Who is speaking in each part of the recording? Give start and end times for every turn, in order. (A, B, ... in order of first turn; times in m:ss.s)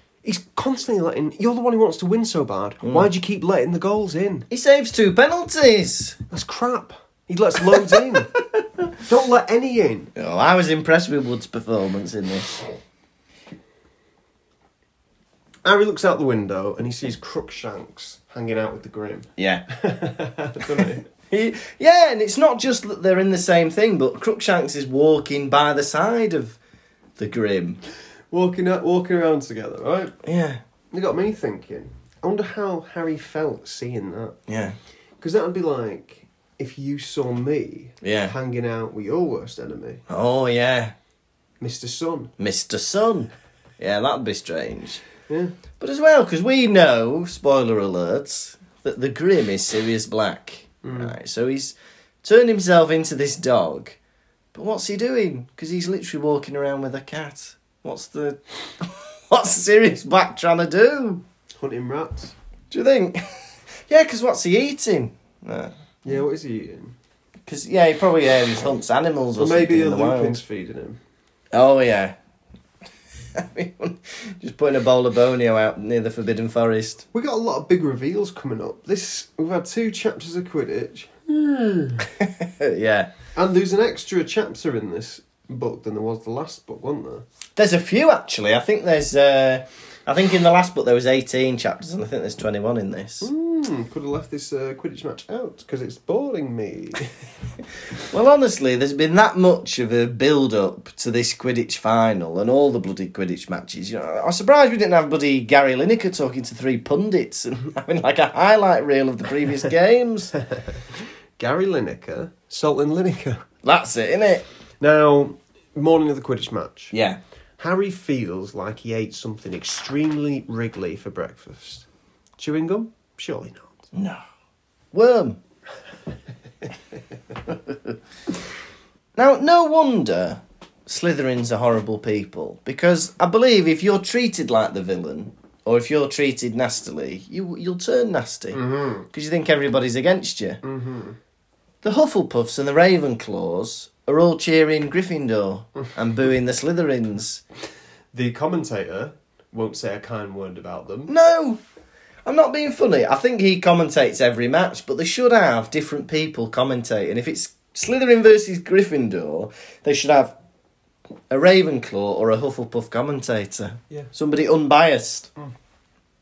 0:00.2-0:04.5 A
0:02.8-0:03.1 B
0:04.5-0:06.2 B
0:06.3-0:08.3 A
0:07.8-0:08.9 B
0:09.0-0:10.1 A
0:10.2-0:12.6 B
0:15.6-0:21.0 A
0:19.4-0:19.6 B
0:20.8-0:26.6 B
0:27.2-0:27.8 B
0:28.3-0:30.1 A
0:30.2-0:30.6 B
0:30.9-0:34.4 A
0:34.5-0:34.8 B
0:35.2-0:40.0 A
0:38.0-0:38.3 B
0:40.1-0:40.9 B
0:41.6-0:42.3 A
0:42.4-0:45.0 B
0:45.3-0:45.5 A
0:45.8-0:54.0 B
0:50.8-0:51.2 A
0:54.5-1:01.2 B
1:01.6-1:02.3 A
1:02.7-1:03.2 B
1:03.9-1:05.7 B
1:06.0-1:07.0 A
1:07.4-1:10.4 B
1:09.4-1:11.0 A
1:11.5-1:12.2 B
1:13.3-1:17.0 B
1:17.1-1:22.1 A
1:22.2-1:23.1 B
1:23.4-1:27.2 A
1:27.6-1:33.3 B
1:33.2-1:37.1 A
1:38.1-1:50.3 B
1:51.4-1:53.4 A
1:53.6-1:54.4 B
1:54.8-1:56.9 A
1:56.9-1:57.2 B
1:57.6-2:01.8 A
2:02.4-2:03.8 A
2:03.9-2:04.2 B
2:04.9-2:05.4 B
2:07.5-2:08.0 B
2:09.2-2:20.6 B
2:18.5-2:19.1 A
2:20.6-2:21.2 A
2:21.8-2:27.4 B
2:28.1-2:31.1 A
2:31.1-2:31.6 B
2:32.2-2:40.3 B
2:41.3-2:45.3 B